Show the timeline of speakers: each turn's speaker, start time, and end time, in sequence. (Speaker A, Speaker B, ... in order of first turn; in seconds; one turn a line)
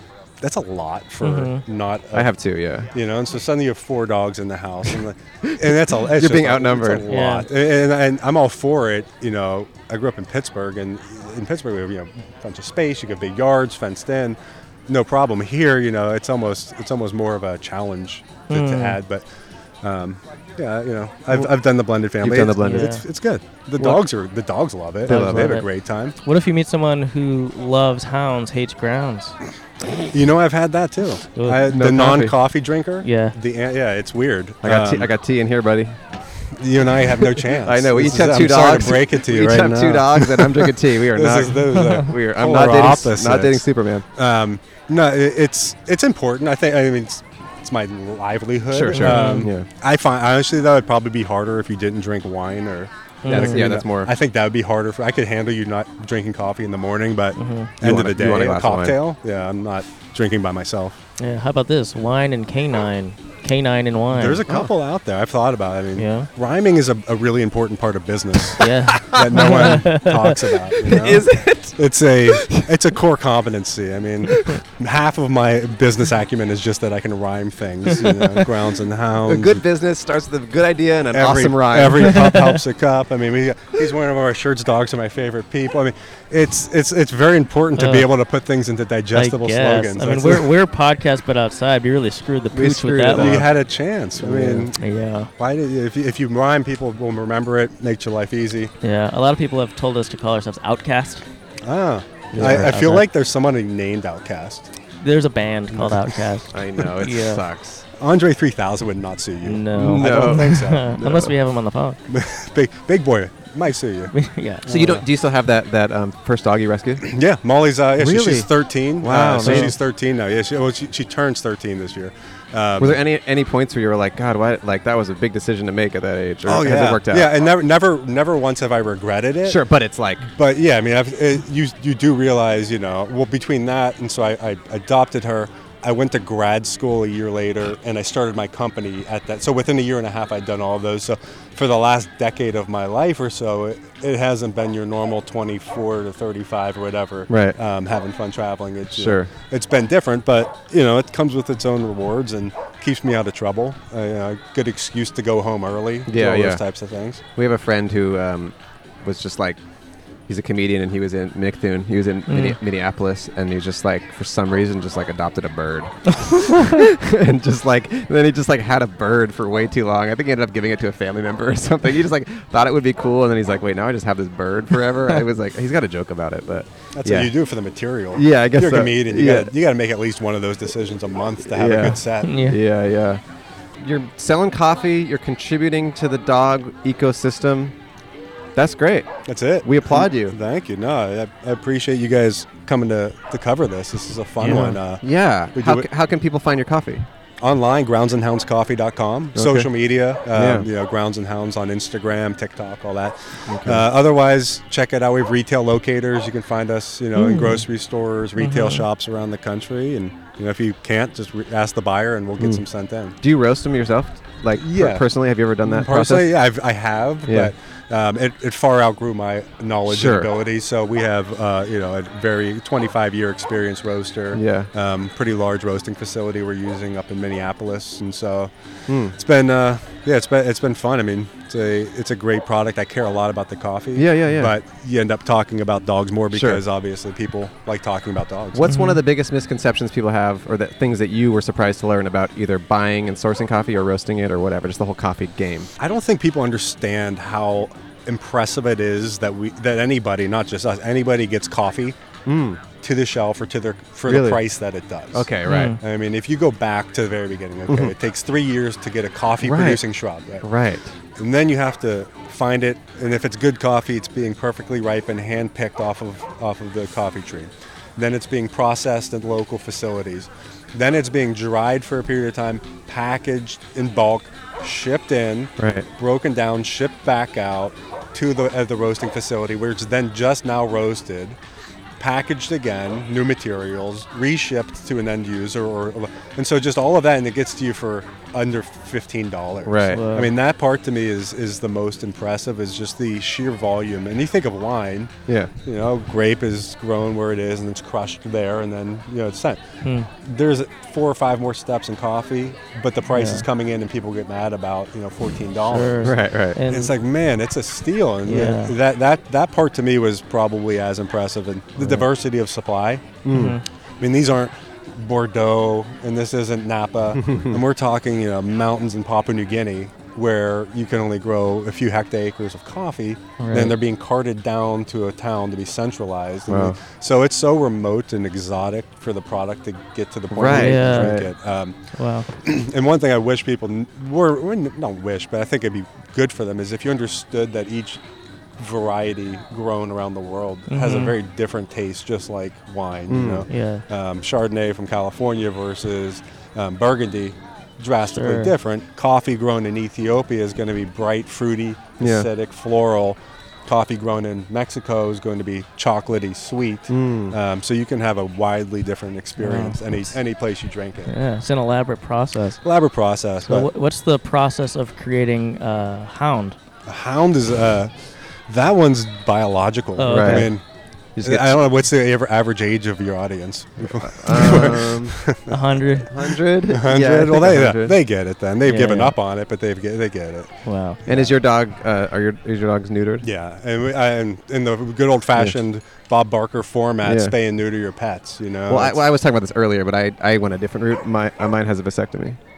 Speaker A: 0.4-2.3
Speaker B: 1.2-1.6
Speaker C: 2.1-2.9
Speaker A: 2.9-19.2
Speaker C: 5.5-7.0
Speaker B: 7.1-7.5
Speaker B: 18.5-19.0
Speaker A: 19.8-26.1
Speaker C: 22.2-23.0
Speaker B: 22.6-23.1
Speaker B: 25.0-25.7
Speaker C: 25.1-25.5
Speaker B: 26.2-29.4
Speaker A: 30.1-35.1
Speaker B: 31.3-31.7
Speaker C: 31.7-32.4
Speaker B: 33.0-33.3
Speaker C: 34.6-36.0
Speaker A: 36.5-61.0
Speaker C: 37.1-44.0
Speaker C: 48.7-49.7
Speaker B: 48.9-49.5
Speaker B: 53.2-53.7
Speaker C: 53.2-54.1
Speaker B: 57.4-57.7
Speaker C: 57.8-59.0
Speaker B: 61.2-64.4
Speaker A: 64.1-79.6
Speaker C: 64.4-64.7
Speaker B: 66.0-66.3
Speaker B: 68.6-70.5
Speaker C: 68.9-69.8
Speaker C: 70.8-72.8
Speaker C: 74.3-74.6
Speaker C: 79.2-82.1
Speaker A: 81.1-90.5
Speaker B: 82.2-82.6
Speaker B: 87.8-88.1
Speaker B: 89.1-93.5
Speaker C: 92.5-93.5
Speaker A: 93.1-94.8
Speaker C: 94.2-94.6
Speaker B: 94.2-95.3
Speaker A: 95.4-98.7
Speaker B: 98.8-101.2
Speaker A: 101.6-104.7
Speaker B: 102.3-103.1
Speaker C: 102.4-102.8
Speaker B: 105.0-107.4
Speaker A: 105.7-106.2
Speaker C: 106.5-107.8
Speaker A: 108.0-111.0
Speaker B: 109.4-112.0
Speaker C: 109.7-111.3
Speaker A: 112.1-114.1
Speaker B: 114.1-115.0
Speaker C: 114.7-117.1
Speaker A: 114.7-115.0
Speaker A: 117.0-123.0
Speaker C: 118.0-118.5
Speaker C: 119.0-119.7
Speaker B: 119.4-119.7
Speaker C: 122.8-127.3
Speaker A: 126.5-129.6
Speaker C: 129.4-130.3
Speaker A: 130.3-157.2
Speaker C: 147.3-147.6
Speaker C: 148.9-149.3
Speaker C: 156.1-156.6
Speaker C: 157.3-159.6
Speaker C: 160.3-177.3
Speaker B: 162.3-162.6
Speaker A: 177.0-182.4
Speaker C: 178.1-179.5
Speaker C: 181.5-183.2
Speaker B: 182.2-182.6
Speaker C: 183.8-187.8
Speaker C: 188.5-189.1
Speaker A: 189.3-195.8
Speaker C: 189.6-190.3
Speaker C: 194.4-197.1
Speaker A: 197.4-213.2
Speaker C: 199.3-199.7
Speaker C: 200.3-200.7
Speaker C: 203.5-203.8
Speaker B: 207.1-207.6
Speaker B: 208.4-208.8
Speaker C: 212.4-212.6
Speaker C: 213.2-216.3
Speaker A: 214.6-215.1
Speaker A: 215.7-228.5
Speaker C: 217.2-217.5
Speaker C: 219.8-220.3
Speaker C: 224.3-224.7
Speaker C: 228.9-229.1
Speaker A: 229.1-238.7
Speaker C: 233.9-234.5
Speaker C: 236.3-236.6
Speaker C: 238.5-245.7
Speaker B: 238.7-239.0
Speaker A: 245.8-252.0
Speaker C: 252.2-252.6
Speaker A: 252.6-260.4
Speaker C: 254.1-254.4
Speaker C: 255.1-255.7
Speaker B: 255.4-255.8
Speaker C: 257.7-257.9
Speaker C: 259.4-259.8
Speaker C: 260.4-260.9
Speaker A: 261.2-281.4
Speaker C: 275.6-275.9
Speaker A: 282.0-295.1
Speaker C: 289.6-290.0
Speaker B: 289.9-290.3
Speaker A: 295.6-299.6
Speaker B: 299.8-300.1
Speaker A: 300.1-306.1
Speaker B: 303.1-303.5
Speaker B: 305.6-306.9
Speaker C: 306.0-306.6
Speaker A: 306.6-313.2
Speaker B: 308.2-308.8
Speaker B: 311.8-312.1
Speaker C: 313.2-313.6
Speaker B: 313.3-313.6
Speaker A: 314.0-331.8
Speaker C: 317.2-317.6
Speaker B: 323.4-323.7
Speaker C: 326.5-326.8
Speaker C: 330.3-331.3
Speaker B: 330.4-331.2
Speaker B: 331.9-332.3
Speaker A: 332.4-338.0
Speaker A: 338.6-361.1
Speaker B: 340.7-341.1
Speaker C: 343.1-343.4
Speaker B: 343.5-343.8
Speaker B: 348.1-348.5
Speaker C: 352.0-352.3
Speaker C: 356.9-357.4
Speaker B: 359.4-360.0
Speaker B: 361.1-362.6
Speaker A: 362.6-363.7
Speaker B: 363.4-366.6
Speaker A: 366.9-370.6
Speaker B: 370.0-370.5
Speaker C: 370.1-370.5
Speaker C: 371.2-371.6
Speaker A: 371.2-375.5
Speaker C: 373.8-375.2
Speaker B: 375.5-376.1
Speaker C: 376.1-378.0
Speaker A: 376.7-380.5
Speaker B: 378.6-379.1
Speaker B: 380.6-381.0
Speaker A: 381.1-381.3
Speaker C: 381.1-383.3
Speaker A: 383.2-389.0
Speaker C: 387.0-387.4
Speaker C: 388.7-392.4